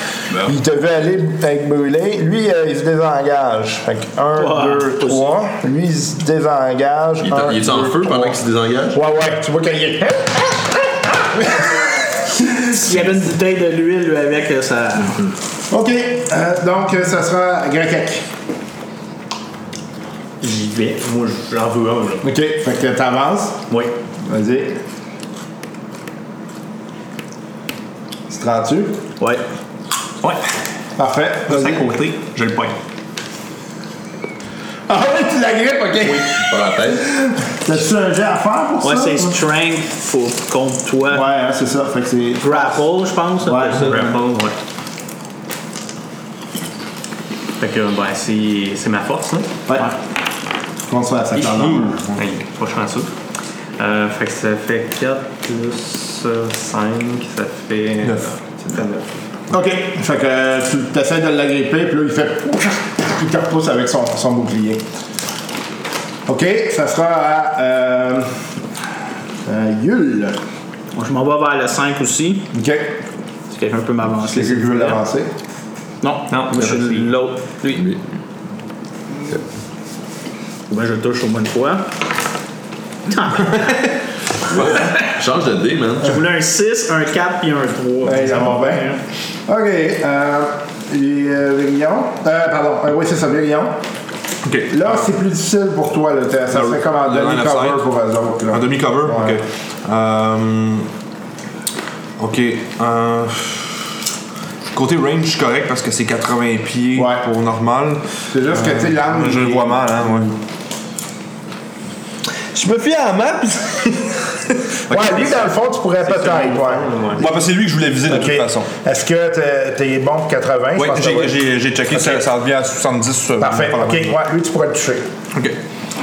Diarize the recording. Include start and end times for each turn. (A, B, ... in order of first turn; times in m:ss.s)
0:00.4-0:08.4 A
0:04.3-0:05.3 B
0:07.2-0:09.0 C
0:08.9-0:12.7 A
0:12.7-0:15.2 B
0:15.7-0:18.2 A
0:20.4-0:22.3 D
0:22.2-0:23.6 A
0:24.2-0:24.8 A
0:28.3-0:29.0 A
0:31.0-0:31.8 A
0:31.5-0:32.8 D
0:34.9-0:39.4 A
0:36.0-0:37.1 C
0:38.8-0:41.3 B
0:41.1-0:42.8 A
0:42.4-0:44.1 B
0:43.4-0:44.1 A
0:43.7-0:44.6 D
0:47.6-0:49.5 D
0:50.9-0:52.0 A
0:51.6-0:52.2 E
0:52.1-0:53.1 D
0:53.8-0:59.2 D
0:58.0-0:58.3 E
0:59.5-1:04.8 A
1:06.3-1:08.4 A
1:09.4-1:10.4 A
1:10.9-1:12.5 B
1:12.5-1:12.9 A
1:13.5-1:15.0 B
1:14.2-1:15.3 A
1:16.0-1:17.8 B
1:16.3-1:17.1 D
1:17.7-1:18.0 C
1:20.7-1:21.9 B
1:23.1-1:23.9 B
1:24.5-1:26.2 C
1:24.5-1:24.9 B
1:26.0-1:29.0 B
1:28.0-1:28.9 A
1:29.4-1:33.8 A
1:34.4-1:35.1 E
1:34.7-1:39.4 A
1:36.5-1:37.8 E
1:38.5-1:40.9 E
1:42.2-1:43.9 E
1:44.7-1:50.3 E
1:46.9-1:47.2 A
1:48.3-1:49.9 A
1:52.5-1:55.4 E
1:54.9-1:57.4 A
1:56.0-1:57.2 D
1:57.1-1:58.7 E
1:58.0-2:01.4 A
2:00.7-2:04.1 E
2:01.9-2:02.2 A
2:03.4-2:05.1 A